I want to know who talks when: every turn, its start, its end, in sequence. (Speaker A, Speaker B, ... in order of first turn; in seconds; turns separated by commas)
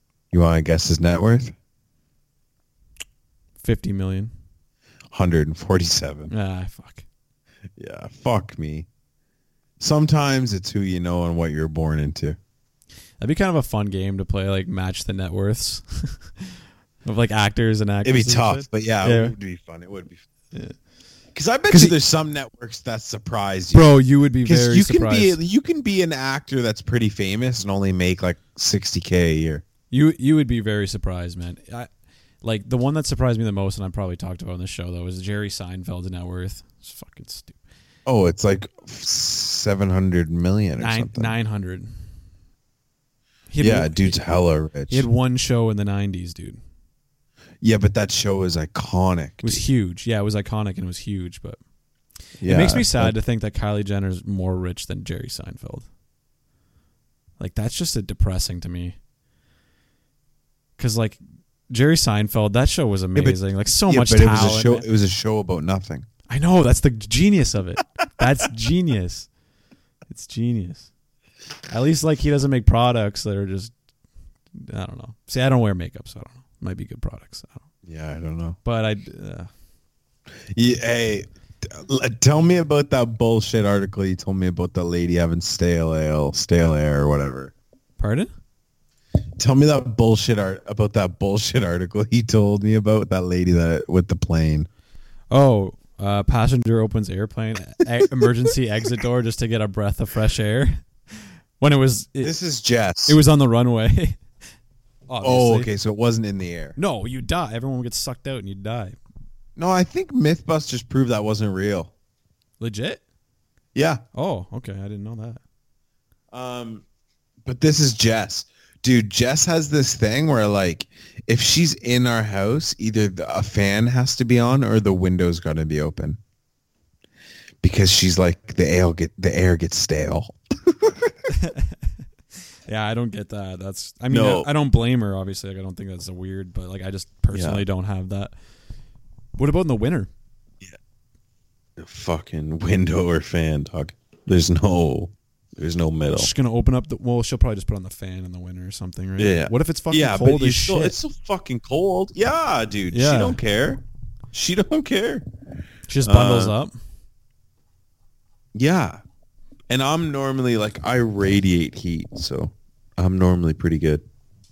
Speaker A: 0.3-1.5, Speaker B: 3.6-4.3, Speaker A: 5.1-6.3, Speaker B: 6.3-7.0, Speaker A: 7.8-8.9, Speaker A: 9.8-12.4, Speaker B: 13.2-19.3, Speaker A: 18.0-20.2, Speaker A: 21.3-29.6, Speaker B: 21.7-21.9, Speaker B: 23.7-25.4, Speaker B: 29.9-31.9, Speaker B: 32.4-37.6, Speaker A: 38.0-41.3, Speaker B: 40.8-41.9, Speaker B: 43.5-44.2, Speaker A: 43.6-45.1, Speaker B: 44.9-46.6, Speaker A: 47.6-49.6, Speaker B: 49.4-51.6, Speaker A: 52.4-53.1, Speaker B: 52.4-55.9, Speaker B: 57.4-59.0, Speaker B: 60.8-61.2, Speaker B: 61.7-64.9, Speaker A: 63.1-66.1, Speaker B: 66.3-69.3, Speaker B: 70.1-70.9, Speaker B: 71.7-73.7, Speaker B: 74.5-77.6, Speaker A: 77.8-78.6, Speaker B: 78.6-79.5, Speaker A: 80.5-87.5, Speaker B: 88.0-88.3, Speaker A: 89.4-94.7, Speaker B: 95.3-102.3, Speaker A: 102.2-103.2, Speaker B: 103.0-104.2, Speaker B: 105.1-105.7, Speaker A: 105.2-106.8, Speaker B: 106.8-109.0, Speaker A: 109.6-111.9, Speaker B: 112.6-113.0, Speaker A: 113.7-114.0, Speaker B: 114.1-115.4, Speaker A: 116.3-116.8, Speaker A: 117.5-126.2, Speaker A: 127.6-131.1, Speaker B: 131.3-131.8, Speaker B: 132.7-138.3, Speaker A: 134.1-134.5, Speaker A: 137.3-137.6, Speaker B: 139.4-140.1, Speaker A: 141.8-146.3, Speaker B: 146.1-151.0, Speaker A: 149.2-155.2, Speaker B: 152.9-153.4, Speaker B: 155.9-156.7, Speaker A: 156.0-156.5, Speaker A: 158.5-159.0, Speaker A: 159.7-164.0